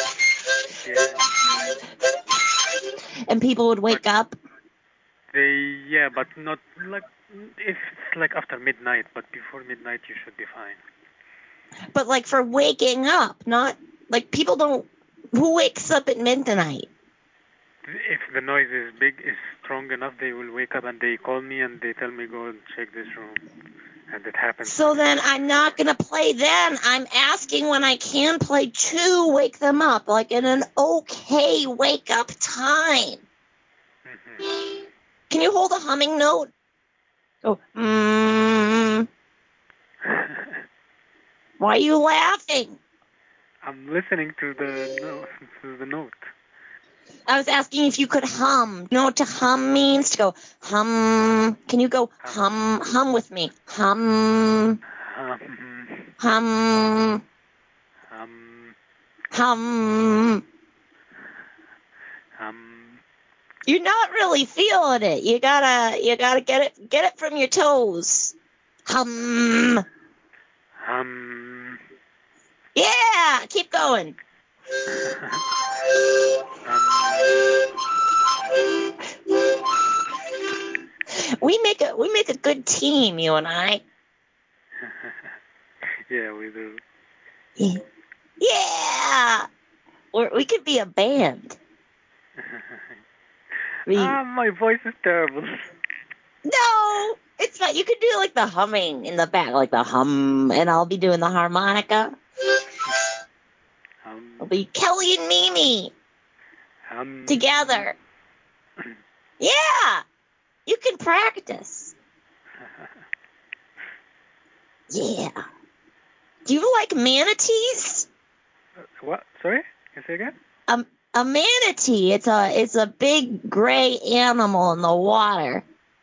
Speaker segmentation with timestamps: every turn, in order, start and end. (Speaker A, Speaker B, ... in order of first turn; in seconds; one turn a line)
Speaker A: 0.8-1.6
Speaker B: 3.3-4.3
Speaker A: 5.3-10.8
Speaker B: 11.9-16.9
Speaker A: 17.9-23.4
Speaker A: 24.1-25.0
Speaker B: 24.6-33.2
Speaker A: 34.0-34.4
Speaker B: 35.3-36.5
Speaker B: 37.4-39.1
Speaker A: 40.0-40.6
Speaker B: 41.6-42.8
Speaker A: 43.6-46.3
Speaker B: 47.3-54.8
Speaker A: 55.0-56.1
Speaker B: 56.2-57.2
Speaker A: 58.1-58.7
Speaker B: 59.3-60.4
Speaker A: 62.4-63.0
Speaker B: 63.6-68.3
Speaker B: 68.9-69.8
Speaker A: 70.8-71.8
Speaker B: 72.7-74.1
Speaker A: 74.9-75.4
Speaker A: 76.6-77.6
Speaker B: 81.4-83.8
Speaker A: 84.8-85.3
Speaker A: 86.1-86.8
Speaker B: 88.4-89.5
Speaker B: 90.1-91.5
Speaker A: 92.4-93.0
Speaker A: 93.9-95.5
Speaker B: 93.9-94.2
Speaker B: 96.5-102.1
Speaker A: 104.0-104.4
Speaker B: 104.4-105.9
Speaker A: 106.9-107.9
Speaker B: 107.3-107.9
Speaker B: 109.4-110.0
Speaker B: 110.7-111.9
Speaker A: 112.6-113.0
Speaker B: 114.9-115.3
Speaker B: 116.5-118.0
Speaker A: 119.0-120.3
Speaker B: 120.7-125.6